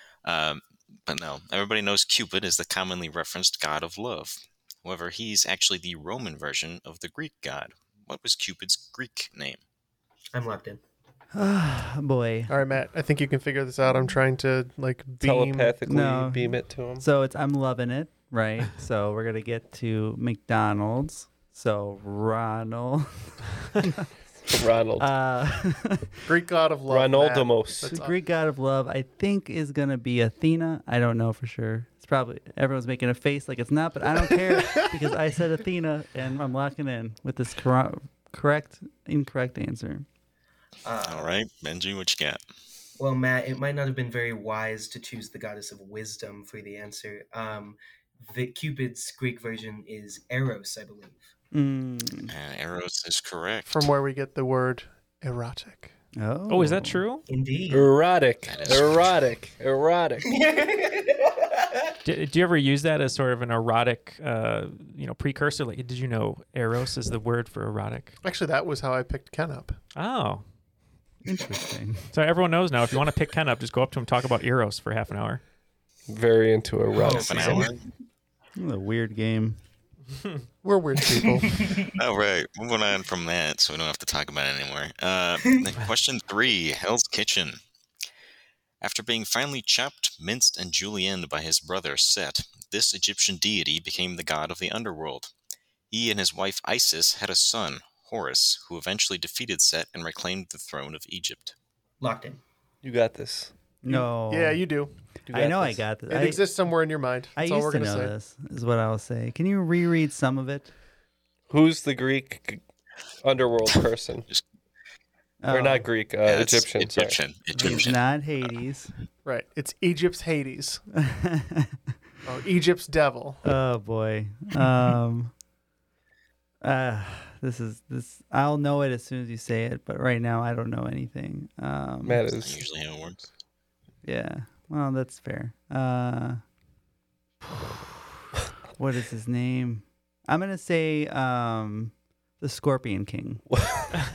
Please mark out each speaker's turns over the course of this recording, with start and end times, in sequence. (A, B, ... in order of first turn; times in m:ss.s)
0:00.2-0:09.6 A
0:10.3-0:10.8 B
0:11.3-0:12.6 C
0:12.5-0:15.8 D
0:15.2-0:17.0 E
0:15.9-0:24.1 C
0:24.5-0:25.1 E
0:25.0-0:26.3 C
0:26.3-0:28.2 D
0:26.9-0:28.0 E
0:27.9-0:40.1 C
0:40.8-0:41.3 B
0:41.0-0:42.4 A
0:43.0-0:51.2 B
0:51.5-0:52.3 C
0:52.3-0:53.9 A
0:53.7-0:55.9 D
0:56.2-0:57.0 C
0:56.5-0:57.2 F
0:57.3-0:57.9 B
0:57.7-1:00.3 E
0:58.5-0:59.1 A
1:00.3-1:01.4 B
1:02.0-1:08.2 F
1:08.2-1:09.8 D
1:10.0-1:10.4 F
1:11.2-1:12.1 C
1:12.1-1:15.4 F
1:16.1-1:17.7 E
1:16.9-1:17.8 B
1:17.0-1:17.8 A
1:18.6-1:19.6 C
1:20.6-1:21.6 D
1:21.2-1:21.9 B
1:22.0-1:27.6 A
1:28.8-1:35.3 A
1:35.9-1:41.6 A
1:42.0-1:42.4 B
1:42.8-1:43.5 E
1:43.8-1:44.7 C
1:43.9-1:44.9 D
1:45.3-1:46.0 E
1:45.3-1:46.4 C
1:46.1-1:48.1 D
1:47.4-1:50.7 C
1:51.5-1:52.6 E
1:53.2-1:54.3 E
1:55.4-1:55.9 C
1:55.5-1:57.2 E
1:56.2-1:58.5 A
1:57.6-1:58.9 C
1:59.2-2:00.8 D
2:01.0-2:01.8 C
2:02.3-2:03.4 D
2:03.4-2:05.3 C
2:06.6-2:12.2 C
2:12.0-2:12.6 E
2:12.4-2:13.3 A
2:14.0-2:16.4 C
2:18.8-2:23.4 C
2:23.5-2:23.9 E